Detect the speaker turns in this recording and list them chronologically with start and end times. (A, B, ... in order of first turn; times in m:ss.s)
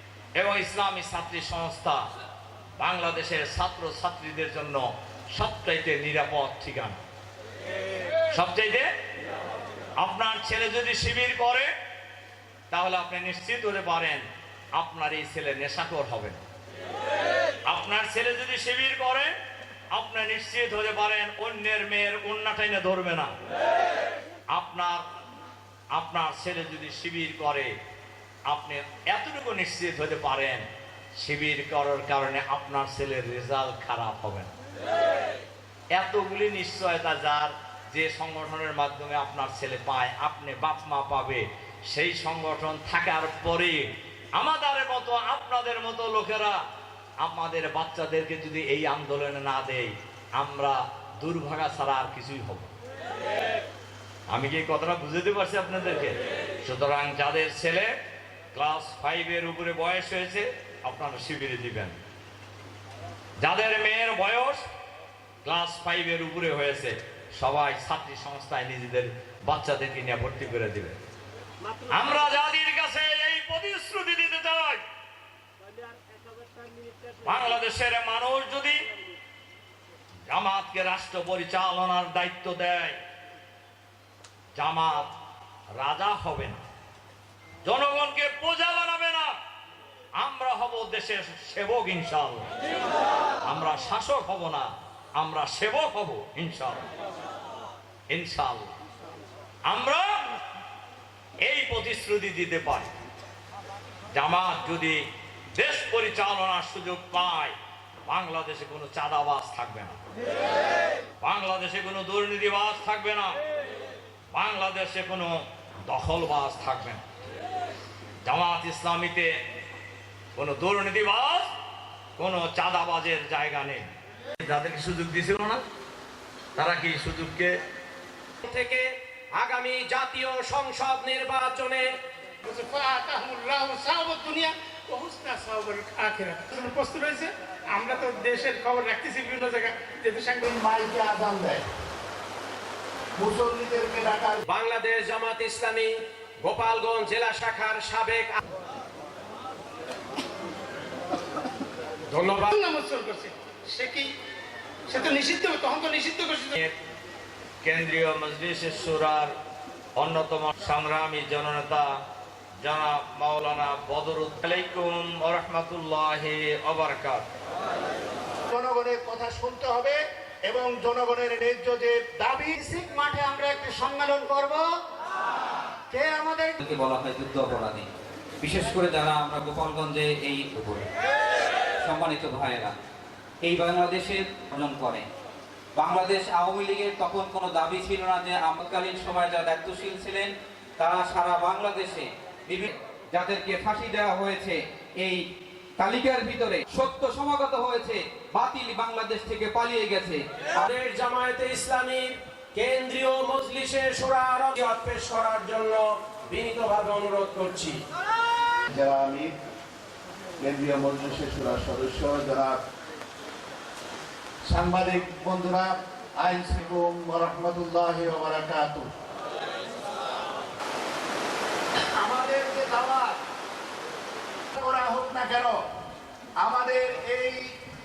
0:00.4-0:02.0 A
0:02.8-0:07.0 A
0:08.3-0:08.9 A
0:10.0-0:11.7 A
0:12.7-0:14.2 A
0:14.7-0:16.4 A
0:17.6-0:19.3 A
0:19.9-0:23.3 A
0:24.5-0:25.0 A
0:25.9-0:27.7 A
0:28.5-0:30.6 A
0:31.2-0:34.5 A
0:35.9-0:43.8 A
0:44.4-0:46.6 A
0:47.2-0:52.7 A
0:54.3-0:57.9 A
0:58.5-1:01.9 A
1:03.4-1:04.6 A
1:05.4-1:11.0 A
1:11.9-1:14.8 A
1:17.2-1:18.8 A
1:20.3-1:23.0 A
1:24.5-1:25.1 A
1:25.8-1:26.6 A
1:27.6-1:29.3 A
1:30.2-1:32.5 A
1:33.4-1:36.9 A
1:38.1-1:38.7 A
1:39.7-1:40.0 A
1:41.4-1:42.9 A
1:44.1-1:47.5 A
1:48.1-1:50.0 A
1:51.2-1:53.4 A
1:54.3-1:57.0 A
1:58.2-1:59.3 A
2:00.3-2:01.5 A
2:02.2-2:03.8 A
2:04.4-2:05.6 A
2:06.6-2:07.5 A
2:08.4-2:11.9 B
2:12.4-2:20.4 C
2:20.4-2:21.6 D
2:23.2-2:24.4 D
2:24.5-2:28.4 B
2:32.1-2:32.6 B
2:32.6-2:34.1 C
2:34.9-2:36.6 C
2:37.6-2:39.3 A
2:40.0-2:41.9 A
2:42.6-2:47.2 A
2:48.5-2:52.6 D
2:52.6-2:54.6 E
2:55.9-2:56.6 E
2:56.6-2:57.9 F
2:58.4-3:00.9 F
3:01.8-3:02.7 F
3:03.4-3:05.0 F
3:05.8-3:15.2 F
3:15.8-3:20.6 F
3:20.6-3:27.8 B
3:28.7-3:29.4 D
3:30.4-3:32.6 D
3:34.4-3:38.9 D
3:42.0-3:43.2 D
3:44.6-3:45.6 D
3:46.4-3:47.5 D